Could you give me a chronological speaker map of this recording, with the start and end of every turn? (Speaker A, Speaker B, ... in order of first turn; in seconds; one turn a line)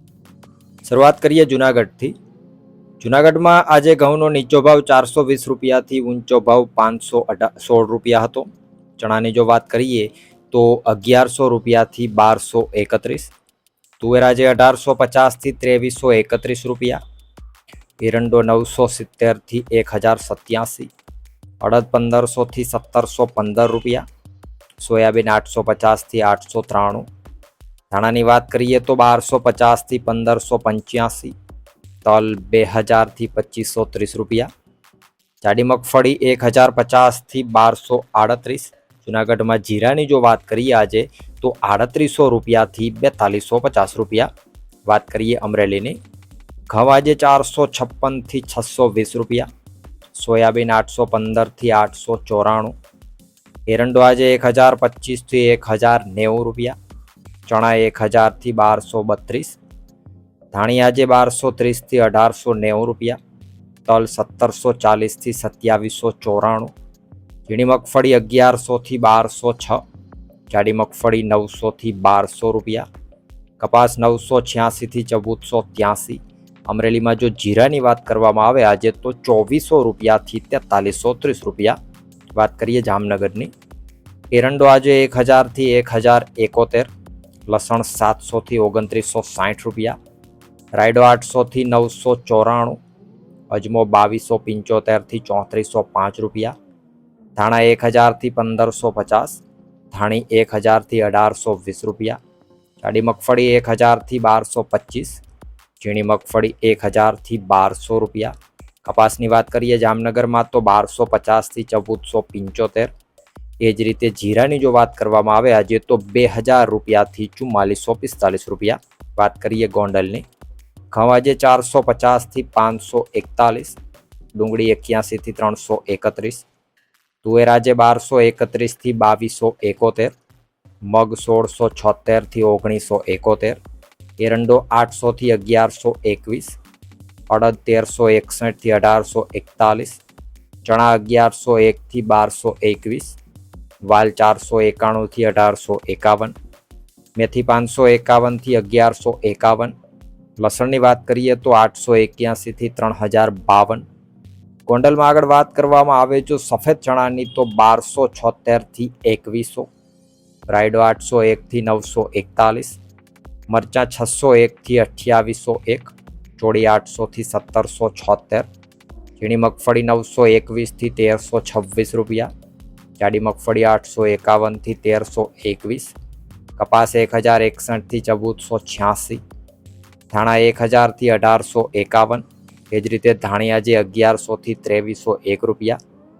Speaker A: 0.8-2.1
Speaker A: 3.0-13.3
Speaker A: 14.0-17.0
Speaker A: 18.0-20.9
Speaker A: 21.6-24.1
Speaker A: 24.8-27.1
Speaker A: 27.9-31.3
Speaker A: 32.0-34.5
Speaker A: 35.4-44.3
Speaker A: 44.9-46.0
Speaker A: 46.7-49.5
Speaker A: 50.1-52.7
Speaker A: 53.7-56.8
Speaker A: 57.5-59.6
Speaker A: 60.5-63.2
Speaker A: 63.9-66.7
Speaker A: 67.5-69.8
Speaker A: 70.5-72.9
Speaker A: 73.6-81.8
Speaker A: 82.3-83.5
Speaker A: 84.3-86.9
Speaker A: 87.5-90.0
Speaker A: 90.8-92.8
Speaker A: 93.5-96.5
Speaker A: 97.4-102.2
Speaker A: 102.8-105.2
Speaker A: 105.8-112.9
Speaker A: 113.6-120.2
Speaker A: 120.9-123.8
Speaker A: 124.3-126.5
Speaker A: 127.2-130.1
Speaker A: 130.8-133.6
Speaker A: 134.2-136.6
Speaker A: 137.3-140.0
Speaker A: 140.6-143.2
Speaker A: 143.9-146.3
Speaker A: 147.2-149.8
Speaker A: 150.4-153.8
Speaker A: 154.7-159.7
Speaker A: 160.5-162.8
Speaker A: 163.5-168.5
Speaker A: 169.2-172.3
Speaker A: 173.0-175.9
Speaker A: 176.6-179.2
Speaker A: 180.1-185.8